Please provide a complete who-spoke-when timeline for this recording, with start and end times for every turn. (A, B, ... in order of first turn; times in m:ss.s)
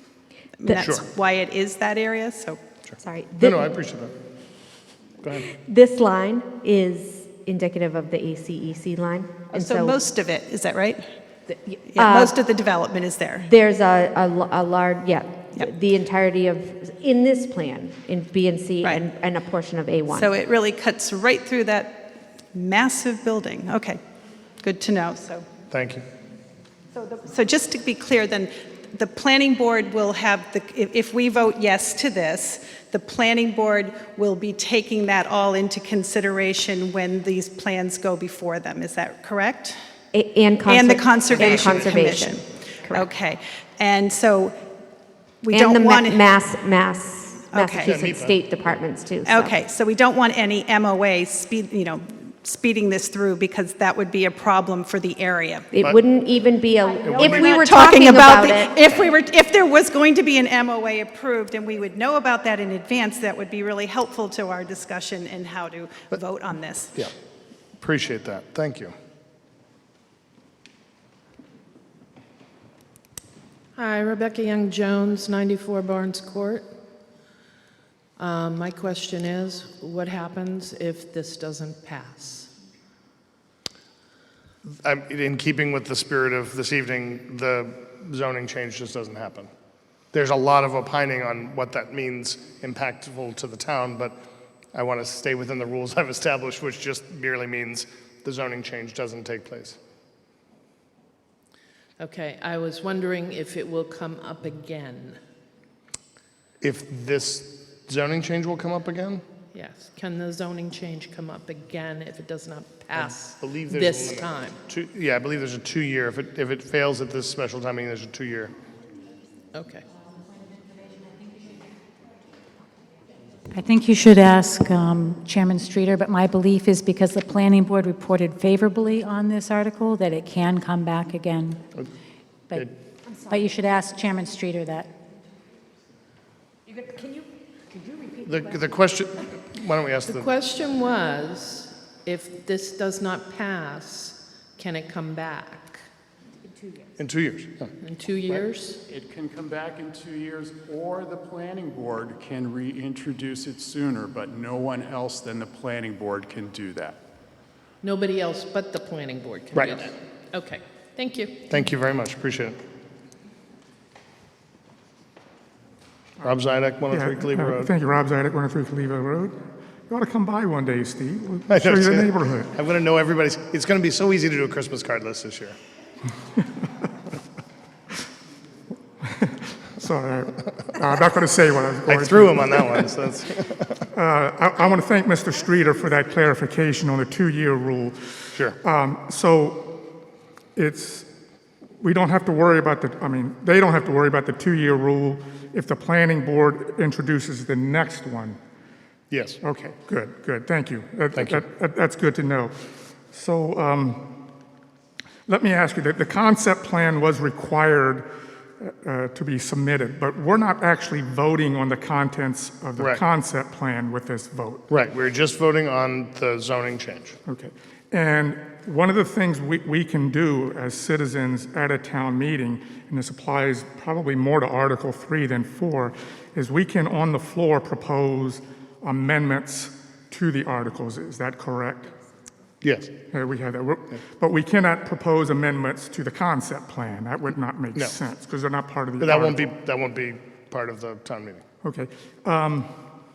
0:00.6-0:02.6 A
0:00.8-0:01.0 B
0:02.9-0:04.1 B
0:03.0-0:03.6 C
0:05.2-0:05.5 B
0:05.6-0:10.0 C
0:09.5-0:11.0 A
0:11.5-0:12.3 C
0:11.9-0:13.5 A
0:13.5-0:20.3 C
0:20.1-0:24.0 A
0:24.6-0:25.4 A
0:25.7-0:26.0 B
0:26.9-0:39.8 A
0:40.1-0:43.0 C
0:40.6-0:44.5 A
0:41.3-0:41.9 B
0:45.4-0:46.2 A
0:45.5-0:49.5 C
0:47.5-0:47.9 A
0:47.8-0:48.4 B
0:49.2-0:55.7 A
0:55.7-0:58.7 C
0:57.0-0:57.5 B
0:57.2-1:07.0 A
1:07.8-1:08.9 B
1:13.8-1:16.7 D
1:18.2-1:22.5 D
1:24.7-1:29.5 B
1:30.1-1:34.2 B
1:34.7-1:39.8 B
1:42.0-1:45.2 D
1:46.6-1:49.2 B
1:49.5-1:54.6 D
1:52.9-1:58.5 B
1:59.5-1:59.8 D
2:03.5-2:11.6 E
2:13.2-2:14.9 E
2:18.2-2:20.3 B
2:20.1-2:25.8 D
2:27.0-2:27.7 B
2:27.8-2:28.8 D
2:28.9-2:37.0 F
2:37.8-2:41.4 D
2:39.5-2:39.9 B
2:41.5-2:42.6 B
2:46.2-2:47.7 B
2:46.9-2:49.4 G
2:49.9-2:52.5 G
2:51.5-2:55.6 B
2:59.0-3:02.9 G
3:01.8-3:03.7 B
3:03.9-3:09.7 G
3:10.6-3:11.1 G
3:11.8-3:18.4 G
3:19.1-3:19.4 B
3:19.4-3:22.5 G
3:21.1-3:21.4 B
3:23.1-3:24.0 G
3:25.3-3:28.0 G
3:28.6-3:34.7 G
3:32.8-3:33.0 B
3:34.7-3:37.2 B
3:37.2-3:51.9 G
3:52.6-3:52.9 B
3:53.1-3:59.5 G
3:59.0-4:01.4 B
4:01.6-4:02.7 G